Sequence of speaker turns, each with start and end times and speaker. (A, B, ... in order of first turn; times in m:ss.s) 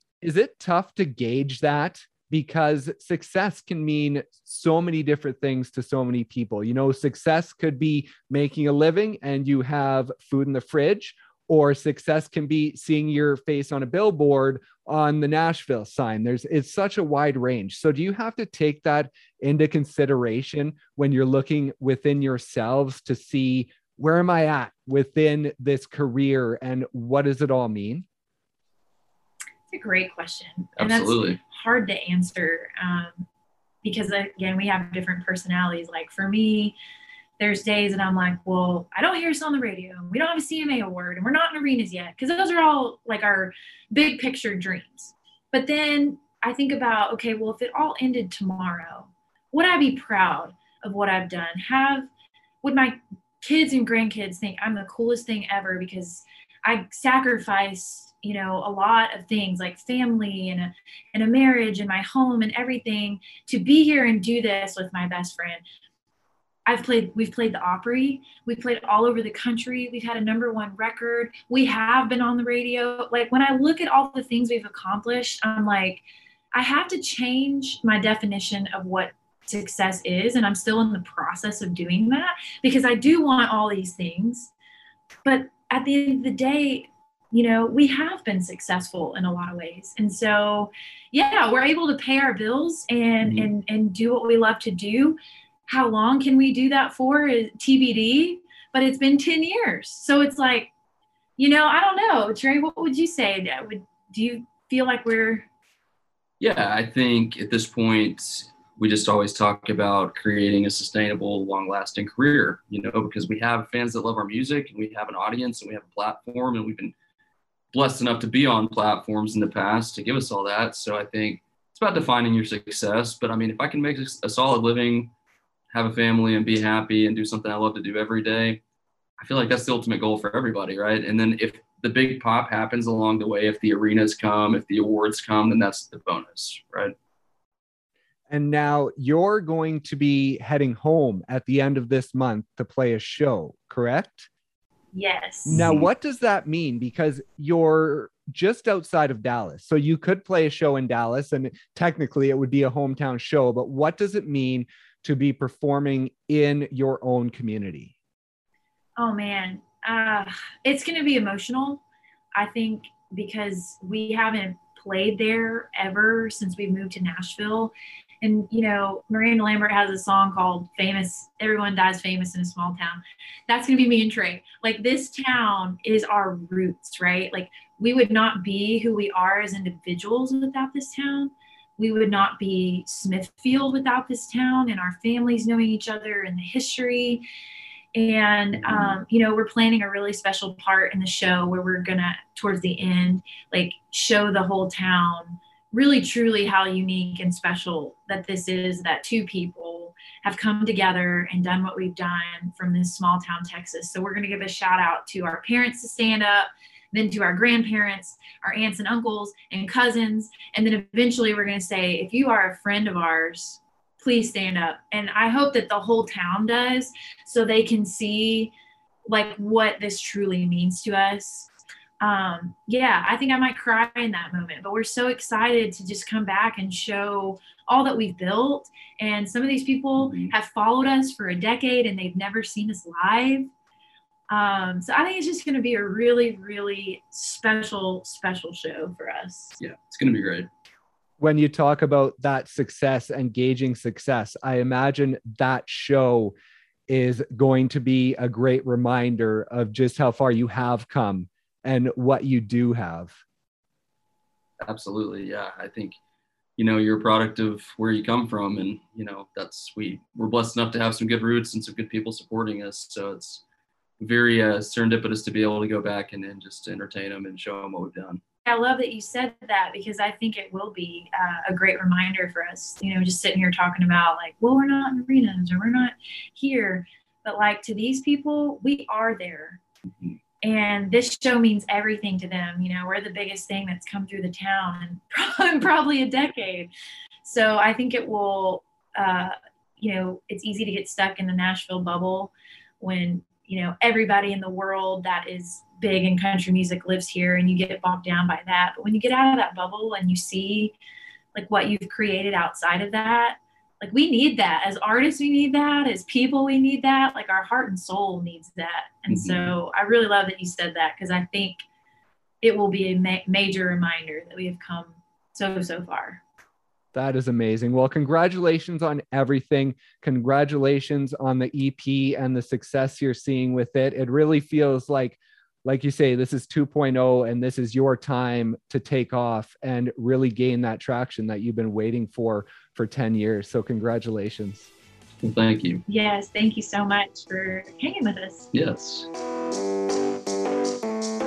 0:00.2-0:28.0 A
0:29.7-0:33.2 B
0:30.8-0:31.4 C
0:33.8-0:36.8 B
0:37.4-0:52.1 B
0:52.6-1:05.6 B
1:06.6-1:16.0 B
1:16.5-1:24.5 B
1:25.2-1:40.7 B
1:33.2-1:33.5 C
1:41.4-1:45.5 B
1:46.4-1:56.9 C
1:57.7-2:05.1 C
2:05.7-2:08.6 C
2:09.2-2:16.9 C
2:18.3-2:24.3 A
2:24.9-2:25.6 B
2:25.5-2:37.9 A
2:25.5-2:25.9 C
2:39.0-2:41.8 B
2:42.4-3:07.2 B
3:07.9-3:38.5 B
3:08.6-3:09.0 C
3:39.1-3:41.5 B
3:42.0-3:53.5 B
3:50.0-3:50.3 C
3:54.3-3:59.6 B
3:59.6-4:00.5 C
4:01.2-4:06.4 A
4:06.9-4:13.1 A
4:14.6-4:16.0 C
4:16.6-4:23.4 C
4:24.0-4:28.2 C
4:28.4-4:39.6 B
4:40.4-4:46.7 B
4:47.2-5:00.8 B
5:01.3-5:11.6 B
5:09.1-5:09.5 C
5:12.4-5:16.2 B
5:16.9-5:34.7 A
5:35.2-5:35.8 C
5:35.9-5:38.5 B
5:38.5-5:39.1 C